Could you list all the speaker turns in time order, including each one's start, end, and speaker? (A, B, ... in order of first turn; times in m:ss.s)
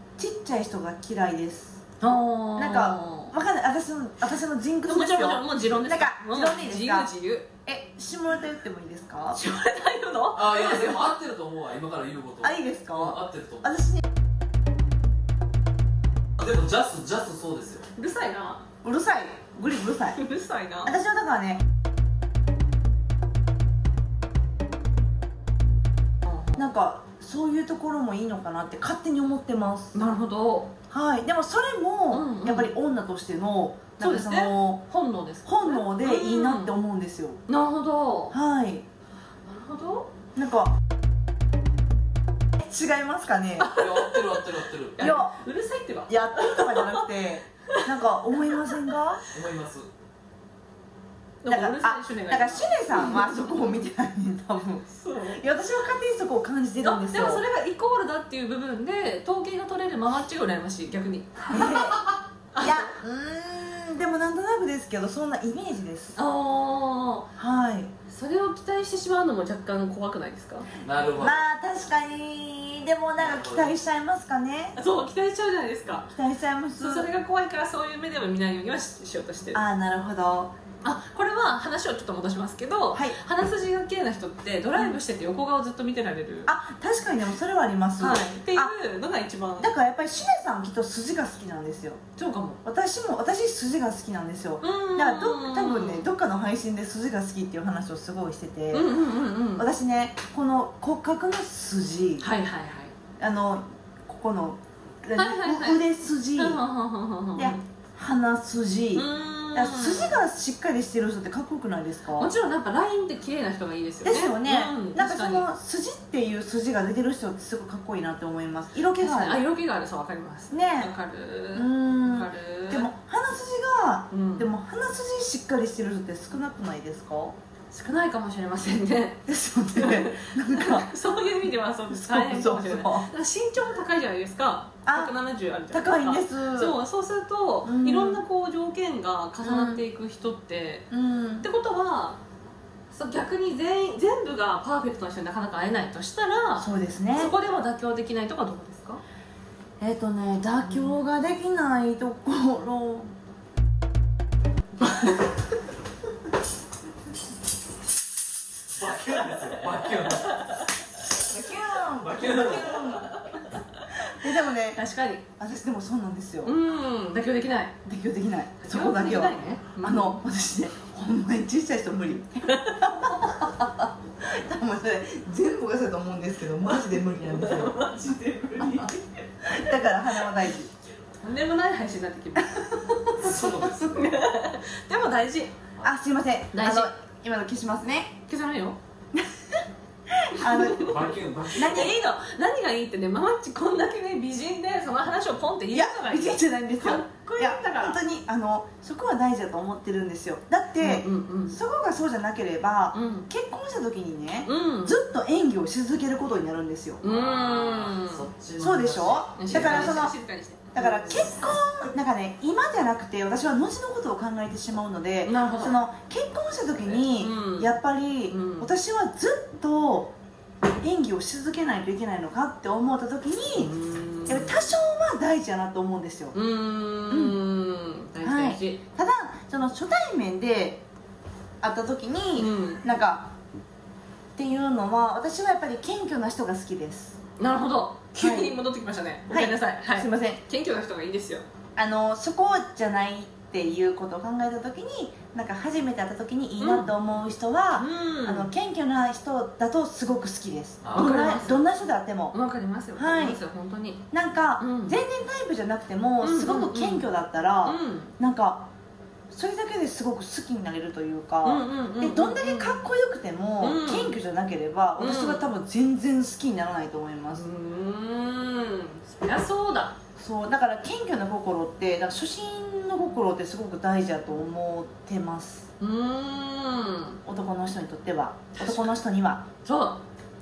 0:00.2-0:01.8 A
0:02.0-0:03.4 B
0:02.6-0:07.1 A
0:04.8-0:07.5 B
0:07.6-0:09.4 A
0:09.3-0:11.1 B
0:10.3-0:13.6 C
0:12.4-0:14.0 A
0:16.4-0:17.8 C
0:17.9-0:18.6 B
0:18.8-0:20.2 A
0:20.1-0:20.9 B
0:20.8-0:21.6 A
0:26.3-0:26.6 B
0:26.6-0:30.0 A
0:29.9-0:30.7 B
0:30.9-0:34.8 A
0:32.1-0:32.7 B
0:34.0-0:36.7 B
0:35.4-0:37.4 A
0:37.5-0:38.4 B
0:38.3-0:38.8 A
0:39.4-0:40.1 B
0:40.4-0:40.7 A
0:42.6-0:43.7 A
0:43.6-0:47.0 B
0:43.7-0:45.1 C
0:45.0-0:45.4 A
0:46.1-0:49.2 A
0:49.3-0:49.9 C
0:51.4-0:53.3 B
0:51.5-0:57.4 A
0:54.9-0:55.4 B
0:56.8-1:02.9 B
1:01.5-1:02.0 A
1:02.6-1:06.2 A
1:06.2-1:07.3 B
1:07.4-1:07.9 A
1:08.1-1:10.7 B
1:10.8-1:11.4 C
1:11.2-1:14.8 A
1:13.2-1:13.7 C
1:14.8-1:16.1 B
1:16.1-1:17.1 A
1:16.8-1:19.6 B
1:19.5-1:20.5 A
1:20.8-1:26.5 B
1:22.9-1:23.2 A
1:26.4-1:28.7 A
1:28.0-1:29.7 B
1:29.6-1:32.0 A
1:32.2-1:32.6 B
1:32.6-1:38.9 A
1:34.6-1:36.1 B
1:38.7-1:39.7 B
1:39.6-1:42.3 A
1:42.2-1:42.9 B
1:43.2-1:46.6 A
1:45.2-1:45.8 B
1:46.4-1:47.6 B
1:47.4-1:52.3 A
1:48.9-1:50.2 B
1:52.2-1:55.5 B
1:54.0-1:59.4 A
1:59.0-2:02.9 B
2:00.5-2:00.9 A
2:01.5-2:07.4 A
2:04.1-2:04.5 B
2:07.7-2:20.9 B
2:09.3-2:10.9 A
2:11.9-2:13.1 A
2:14.8-2:15.1 A
2:15.7-2:16.8 A
2:17.6-2:18.2 A
2:19.4-2:19.8 A
2:20.9-2:21.5 A
2:21.4-2:22.2 B
2:22.9-2:29.0 B
2:26.6-2:27.3 A
2:29.8-2:33.1 A
2:30.6-2:30.9 B
2:34.8-2:35.1 B
2:38.7-2:40.6 C
2:41.2-2:43.2 A
2:42.0-2:43.2 C
2:44.0-2:44.8 A
2:44.7-2:45.2 B
2:45.4-2:46.5 A
2:46.4-2:47.8 B
2:47.8-2:57.9 A
2:48.6-2:50.2 B
2:57.3-2:59.1 B
2:58.6-2:58.9 A
2:59.4-3:00.7 A
3:01.2-3:05.5 B
3:03.2-3:04.2 C
3:05.8-3:08.2 A
3:06.5-3:06.9 B
3:08.3-3:08.8 B
3:10.3-3:12.0 A
3:10.4-3:11.0 B
3:10.7-3:12.0 C
3:11.5-3:18.0 B
3:15.7-3:27.0 A
3:20.8-3:21.6 B
3:22.9-3:23.3 B
3:24.4-3:25.0 B
3:27.0-3:28.2 B
3:27.0-3:30.0 C
3:28.6-3:30.1 A
3:29.4-3:31.5 B
3:30.7-3:40.1 A
3:35.2-3:35.8 B
3:36.9-3:37.7 B
3:38.3-3:38.7 B
3:40.8-3:43.7 A
3:43.6-3:44.6 B
3:44.3-3:46.3 A
3:46.3-3:48.8 B
3:47.1-3:47.4 A
3:48.2-3:50.8 A
3:51.6-3:53.3 A
3:52.4-3:52.8 B
3:54.3-3:57.2 A
3:57.4-4:01.4 B
3:58.2-3:58.5 A
3:59.3-4:00.4 A
4:01.8-4:12.4 A
4:06.6-4:06.9 B
4:07.8-4:08.5 B
4:10.9-4:11.7 B
4:12.3-4:14.0 B
4:13.0-4:13.4 A
4:14.1-4:18.7 A
4:14.6-4:15.0 B
4:16.2-4:17.1 B
4:17.6-4:18.1 B
4:19.3-4:27.4 A
4:21.4-4:22.8 B
4:23.6-4:24.2 B
4:25.0-4:25.5 B
4:27.3-4:30.0 B
4:30.2-4:35.7 A
4:35.8-4:37.2 B
4:37.2-4:39.4 A
4:38.5-4:38.9 B
4:39.6-4:40.0 B